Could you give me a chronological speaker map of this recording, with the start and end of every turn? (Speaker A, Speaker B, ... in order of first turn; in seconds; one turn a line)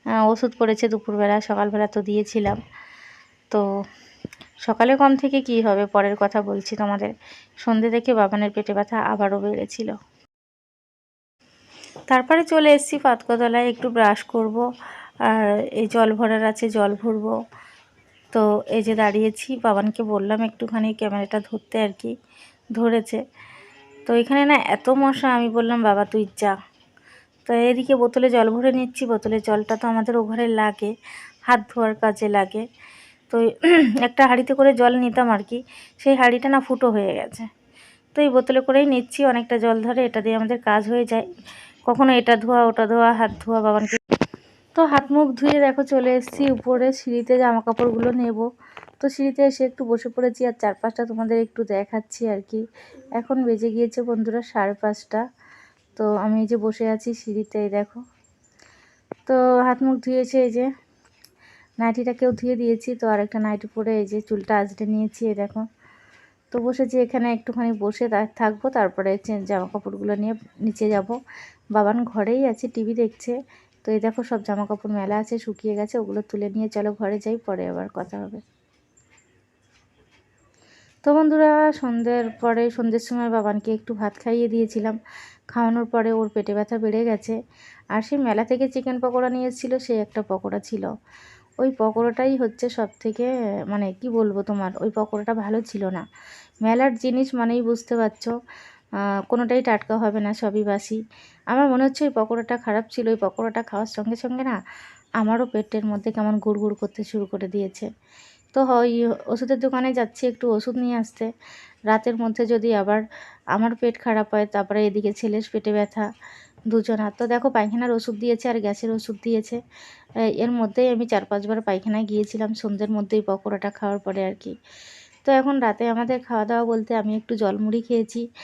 Speaker A: 0.3-2.6
Speaker A: 4.7-7.1
Speaker A: 7.6-9.9
Speaker A: 12.1-14.7
Speaker A: 15.2-17.4
Speaker A: 18.3-22.1
Speaker A: 22.8-23.2
Speaker A: 24.1-26.6
Speaker A: 27.5-30.9
Speaker A: 31.5-32.6
Speaker A: 33.3-37.5
Speaker A: 38.2-41.3
Speaker A: 41.9-44.0
Speaker A: 44.8-48.5
Speaker A: 49.0-52.6
Speaker A: 53.2-55.2
Speaker A: 56.0-58.0
Speaker A: 59.3-60.7
Speaker A: 61.8-65.7
Speaker A: 66.5-71.2
Speaker A: 71.8-78.4
Speaker A: 81.0-85.0
Speaker A: 85.5-87.4
Speaker A: 87.9-90.9
Speaker A: 91.6-96.0
Speaker A: 96.6-98.3
Speaker A: 99.3-101.0
Speaker A: 101.5-104.6
Speaker A: 105.2-107.9
Speaker A: 108.5-111.3
Speaker A: 111.9-113.0
Speaker A: 113.5-116.1
Speaker A: 116.7-119.6
Speaker A: 120.4-124.5
Speaker A: 125.3-128.2